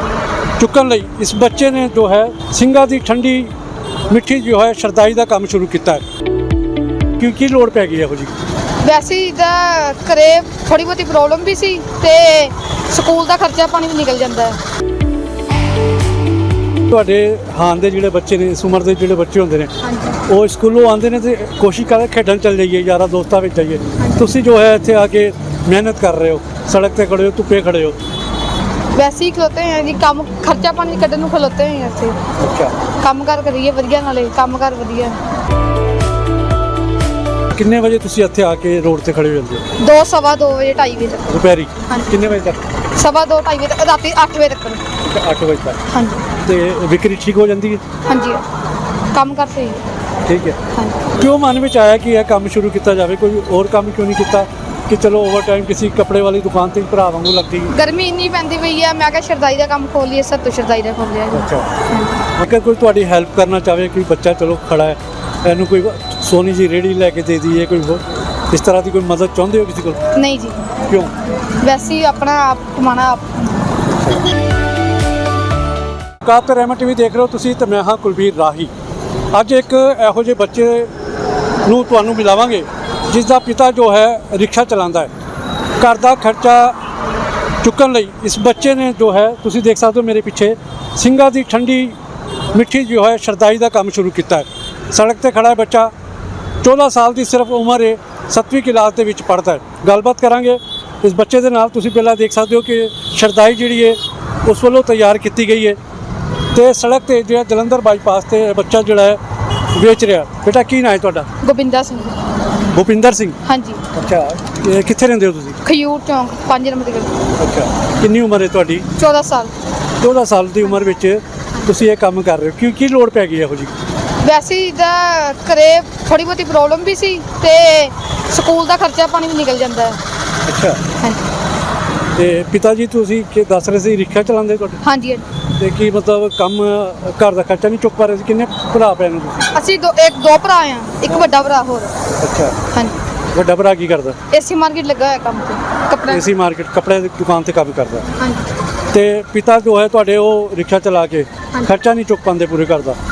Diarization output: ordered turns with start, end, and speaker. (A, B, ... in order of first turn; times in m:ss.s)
0:00.6-0:03.5 A
0:04.1-0:06.0 A
0:07.2-0:08.3 A
0:08.8-0:14.6 B
0:16.9-0:19.7 A
0:19.8-0:20.2 B
0:20.2-0:28.0 A
0:24.0-0:24.3 B
0:28.9-0:32.2 B
0:32.4-0:32.7 A
0:33.0-0:35.2 B
0:37.5-0:39.6 A
0:39.8-0:41.3 B
0:41.3-0:42.6 A
0:41.9-0:42.2 B
0:43.0-0:44.8 B
0:45.0-0:45.8 A
0:45.9-0:46.2 B
0:46.4-0:47.8 A
0:48.1-0:48.4 B
0:49.1-0:49.8 B
0:50.2-0:50.6 A
0:50.7-0:51.1 B
0:51.2-0:57.7 A
0:57.7-1:02.2 B
1:01.3-1:01.7 A
1:02.4-1:10.1 A
1:10.1-1:10.6 B
1:10.9-1:11.1 A
1:11.6-1:13.6 B
1:14.0-1:14.2 A
1:16.2-1:18.7 A
1:19.3-1:20.9 A
1:21.6-1:25.1 A
1:25.8-1:26.8 A
1:27.6-1:32.0 A
1:32.5-1:35.9 A
1:36.6-1:45.8 A
1:46.5-1:49.2 A
1:49.7-1:51.3 A
1:51.4-1:52.2 B
1:52.7-1:53.4 A
1:53.4-1:53.8 B
1:53.9-1:55.6 A
1:55.6-1:57.2 B
1:57.4-1:58.9 A
1:59.0-1:59.5 B
2:00.0-2:03.7 A
2:04.2-2:10.0 B
2:10.4-2:10.8 A
2:11.0-2:11.3 B
2:12.2-2:14.8 A
2:14.8-2:15.2 B
2:15.6-2:19.5 A
2:19.5-2:21.9 B
2:22.2-2:22.6 A
2:22.7-2:23.0 B
2:23.3-2:24.2 A
2:24.3-2:26.3 B
2:26.1-2:28.1 A
2:28.2-2:28.6 B
2:28.9-2:33.0 A